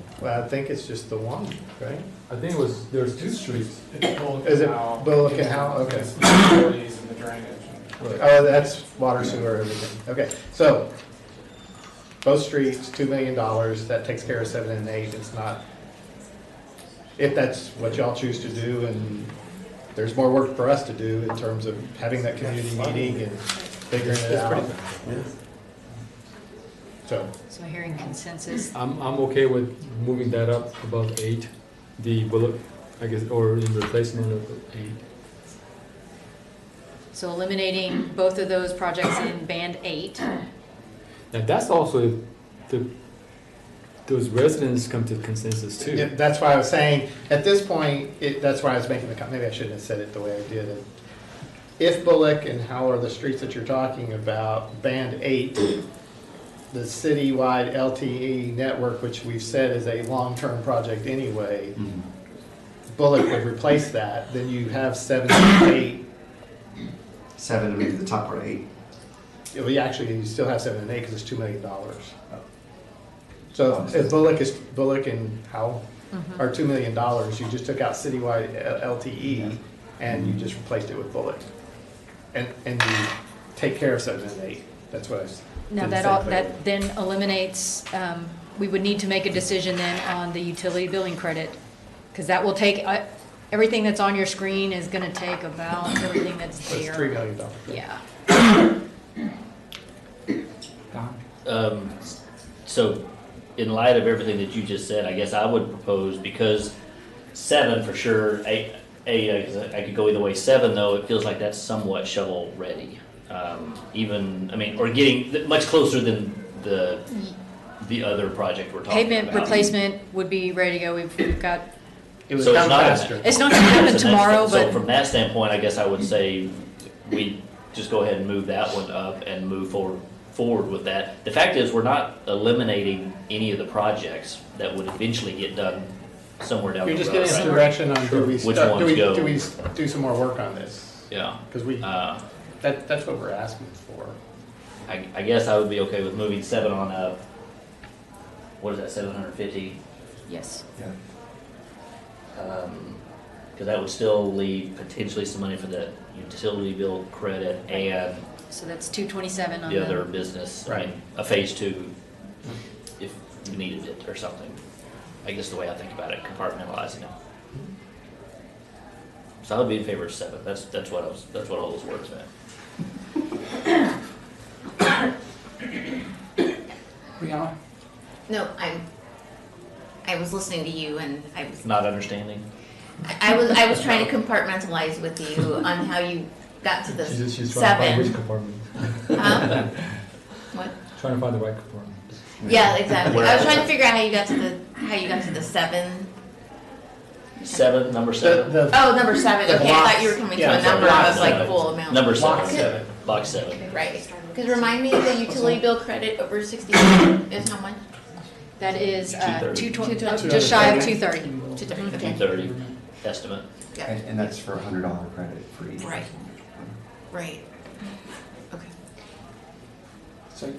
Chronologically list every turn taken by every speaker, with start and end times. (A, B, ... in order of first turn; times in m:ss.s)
0:00.2-0:02.1 A
0:02.3-0:03.8 B
0:03.3-0:08.1 C
0:04.4-0:06.4 A
0:08.0-0:08.2 B
0:08.1-0:10.9 A
0:12.2-0:15.6 A
0:17.2-0:19.3 A
0:20.0-0:24.7 A
0:24.0-0:25.2 B
0:27.0-0:27.3 A
0:27.5-0:28.7 D
0:28.7-0:35.0 B
0:37.1-0:40.3 D
0:41.3-0:42.9 B
0:44.1-0:46.1 B
0:45.9-0:50.8 A
0:51.8-0:55.8 A
0:56.7-1:01.8 A
1:02.9-1:06.0 A
1:07.4-1:08.6 E
1:09.5-1:12.2 A
1:13.5-1:15.8 A
1:13.7-1:14.1 E
1:16.1-1:16.4 D
1:16.4-1:21.5 A
1:20.1-1:20.4 E
1:22.3-1:26.6 A
1:25.7-1:31.6 D
1:32.1-1:38.0 D
1:36.7-1:37.8 A
1:41.0-1:42.1 F
1:42.6-1:43.0 F
1:43.6-1:46.7 F
1:47.3-1:57.3 F
1:57.8-1:59.7 F
1:58.9-2:01.7 D
2:02.3-2:03.4 A
2:02.4-2:19.4 F
2:03.2-2:04.8 D
2:16.8-2:21.9 A
2:17.4-2:18.3 B
2:21.1-2:22.2 F
2:22.6-2:24.2 A
2:24.9-2:27.2 F
2:28.6-2:29.8 F
2:30.3-2:30.6 D
2:32.4-2:33.0 F
2:33.6-2:38.3 F
2:38.5-2:40.1 D
2:39.6-2:41.9 F
2:40.7-2:40.9 A
2:43.0-2:44.6 F
2:45.2-2:47.1 F
2:49.4-2:52.3 F
2:58.3-2:58.8 G
3:00.0-3:01.7 G
3:01.6-3:02.4 F
3:03.1-3:08.1 G
3:06.9-3:09.8 B
3:09.1-3:09.6 G
3:11.0-3:13.2 B
3:12.4-3:12.7 E
3:12.4-3:16.1 G
3:13.0-3:13.7 F
3:17.4-3:17.7 G
3:17.5-3:18.7 F
3:18.2-3:22.9 A
3:18.7-3:22.8 G
3:20.5-3:21.1 C
3:20.6-3:23.8 F
3:23.2-3:24.8 D
3:23.7-3:27.8 G
3:28.6-3:32.0 D
3:29.0-3:29.8 F
3:29.7-3:30.8 G
3:30.2-3:32.7 C
3:30.2-3:31.0 A
3:31.6-3:32.2 G
3:32.0-3:33.5 F
3:33.8-3:36.8 E
3:35.8-3:36.1 G
3:37.1-3:37.9 G